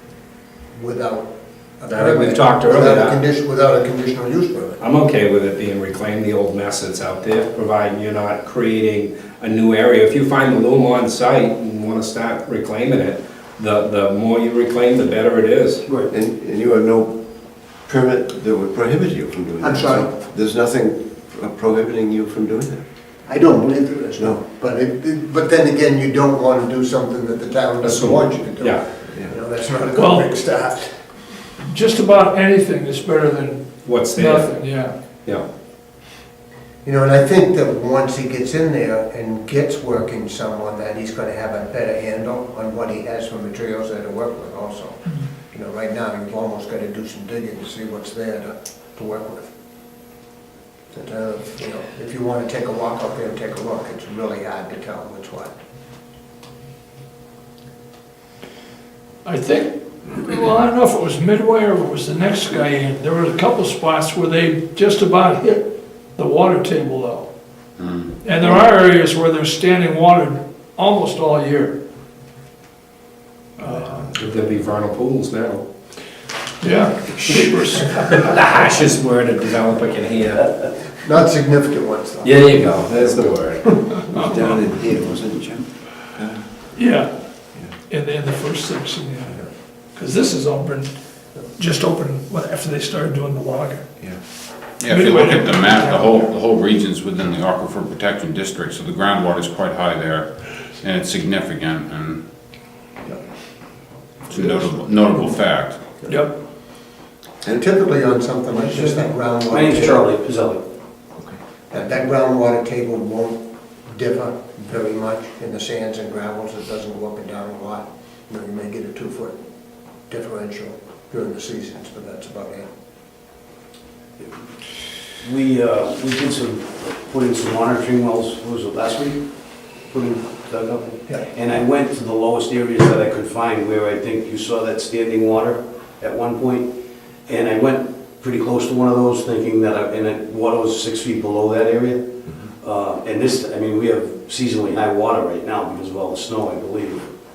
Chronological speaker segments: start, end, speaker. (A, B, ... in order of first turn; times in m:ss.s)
0:00.7-0:04.8 A
0:01.9-0:03.2 B
0:04.8-0:15.8 B
0:15.9-0:16.1 C
0:16.1-0:17.2 D
0:17.8-0:22.8 D
0:19.6-0:20.2 A
0:23.3-0:30.9 A
0:27.8-0:28.8 B
0:29.9-0:30.3 E
0:31.7-0:34.9 E
0:33.8-0:34.5 B
0:36.8-0:49.5 A
0:50.9-0:55.5 A
0:59.2-1:07.3 E
1:07.8-1:08.2 F
1:08.2-1:11.8 E
1:13.6-1:14.1 E
1:14.1-1:15.6 B
1:16.6-1:18.2 E
1:17.9-1:20.5 B
1:21.0-1:22.4 A
1:22.2-1:23.6 B
1:22.7-1:26.5 D
1:26.7-1:27.2 E
1:27.9-1:30.9 E
1:31.5-1:33.8 E
1:34.8-1:42.2 F
1:34.8-1:36.3 E
1:44.3-1:45.8 F
1:46.1-1:46.4 E
1:47.5-1:50.1 A
1:49.5-1:50.6 C
1:51.7-1:59.4 A
2:00.1-2:02.7 A
2:05.2-2:09.2 C
2:09.8-2:16.7 C
2:17.3-2:22.1 C
2:22.6-2:27.1 C